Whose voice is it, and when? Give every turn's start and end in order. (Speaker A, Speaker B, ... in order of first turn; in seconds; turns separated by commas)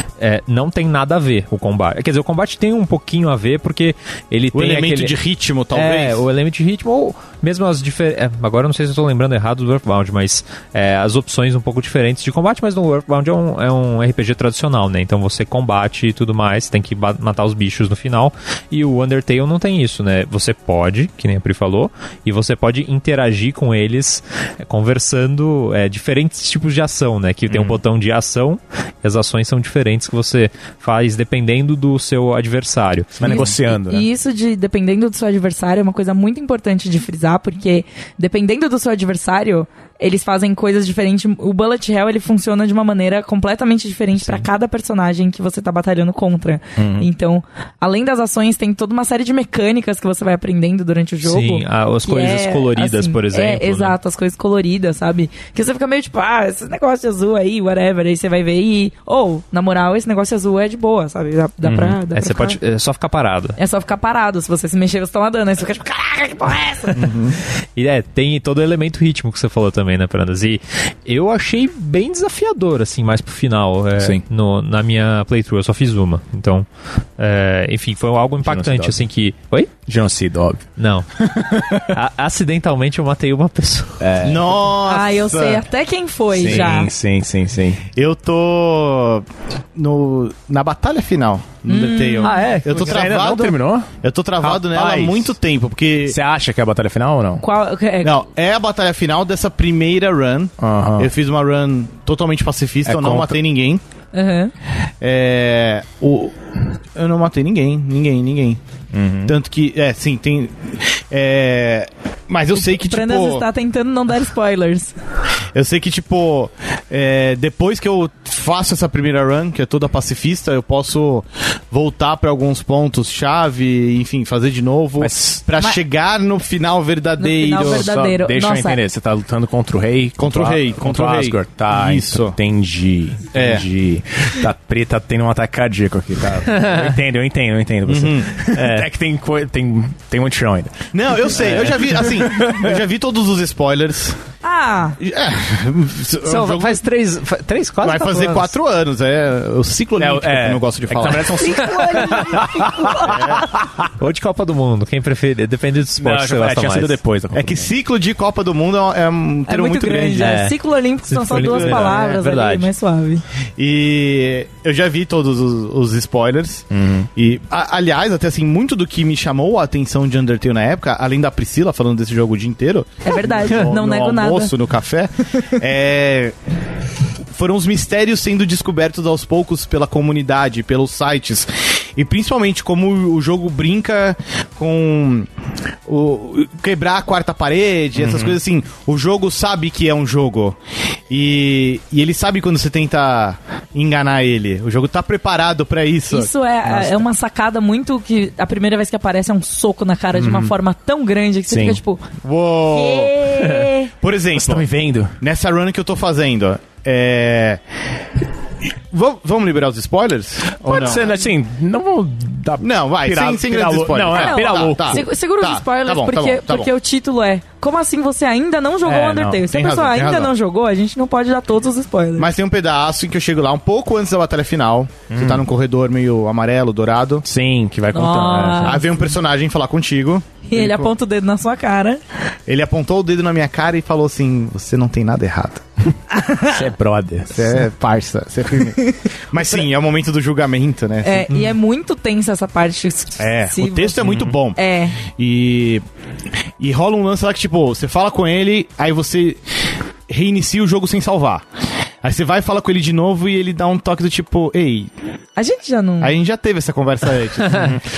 Speaker A: 0.2-5.2, Speaker B: 4.5-6.2, Speaker A: 5.7-33.5, Speaker C: 27.5-27.8, Speaker C: 33.2-34.1, Speaker D: 33.2-62.6, Speaker C: 46.8-47.1, Speaker A: 51.2-54.0, Speaker C: 61.6-62.0, Speaker A: 62.1-63.6, Speaker D: 63.6-67.1, Speaker B: 67.0-67.4, Speaker A: 67.8-76.7, Speaker A: 77.2-79.7, Speaker C: 78.4-79.0, Speaker C: 79.9-80.6, Speaker A: 80.8-81.1, Speaker C: 81.2-82.0, Speaker A: 81.8-84.4, Speaker C: 84.0-84.5, Speaker B: 84.2-85.6, Speaker D: 84.8-86.9, Speaker C: 86.3-87.8, Speaker B: 88.0-96.2, Speaker D: 91.7-92.5, Speaker A: 92.2-93.0, Speaker C: 92.7-93.9, Speaker C: 94.4-95.3, Speaker C: 96.1-97.4, Speaker D: 97.4-98.2, Speaker B: 98.0-103.8, Speaker C: 100.6-101.1, Speaker C: 102.9-103.4, Speaker D: 104.1-104.5, Speaker B: 105.0-106.3, Speaker B: 107.0-108.6, Speaker C: 108.9-109.3, Speaker B: 109.2-113.5, Speaker D: 112.6-114.9, Speaker B: 115.5-127.9, Speaker C: 125.0-125.4, Speaker D: 127.2-128.8, Speaker C: 127.6-142.8, Speaker B: 130.2-132.4, Speaker B: 133.3-133.7, Speaker B: 137.9-138.4, Speaker A: 138.5-138.9, Speaker B: 140.9-144.2, Speaker D: 144.4-145.0, Speaker B: 145.0-146.8, Speaker A: 146.2-148.5, Speaker B: 147.8-151.4, Speaker C: 150.0-153.9, Speaker D: 151.4-153.4, Speaker B: 153.1-153.5, Speaker A: 154.0-157.0, Speaker C: 156.0-157.7, Speaker B: 157.3-160.4, Speaker D: 159.5-163.2, Speaker A: 160.2-160.6, Speaker A: 161.1-162.7, Speaker C: 161.3-161.9, Speaker B: 161.4-161.8, Speaker B: 163.6-176.3, Speaker C: 166.7-167.1, Speaker D: 173.1-174.5, Speaker B: 177.3-185.3, Speaker B: 185.9-190.6, Speaker C: 188.0-188.4, Speaker B: 191.1-196.3, Speaker D: 196.1-202.1, Speaker C: 196.7-197.0, Speaker C: 200.2-200.5, Speaker C: 201.5-201.8, Speaker B: 202.2-207.6, Speaker D: 202.7-203.9, Speaker C: 204.3-205.2, Speaker B: 208.9-211.1, Speaker C: 210.6-215.1, Speaker B: 212.6-216.7, Speaker D: 214.1-222.3, Speaker C: 218.8-219.4, Speaker B: 219.5-220.3, Speaker B: 222.2-227.2, Speaker C: 225.1-225.5, Speaker C: 227.2-228.8, Speaker D: 227.9-228.9, Speaker B: 228.6-230.9, Speaker D: 230.5-232.0, Speaker B: 232.5-235.7, Speaker D: 236.1-236.6, Speaker C: 236.5-237.5, Speaker B: 237.3-241.4, Speaker D: 241.0-244.0, Speaker B: 243.2-245.8, Speaker C: 244.0-244.4, Speaker D: 244.6-245.0, Speaker B: 246.6-249.4, Speaker B: 250.1-251.4, Speaker B: 252.0-254.9, Speaker D: 255.4-256.1, Speaker B: 256.0-257.8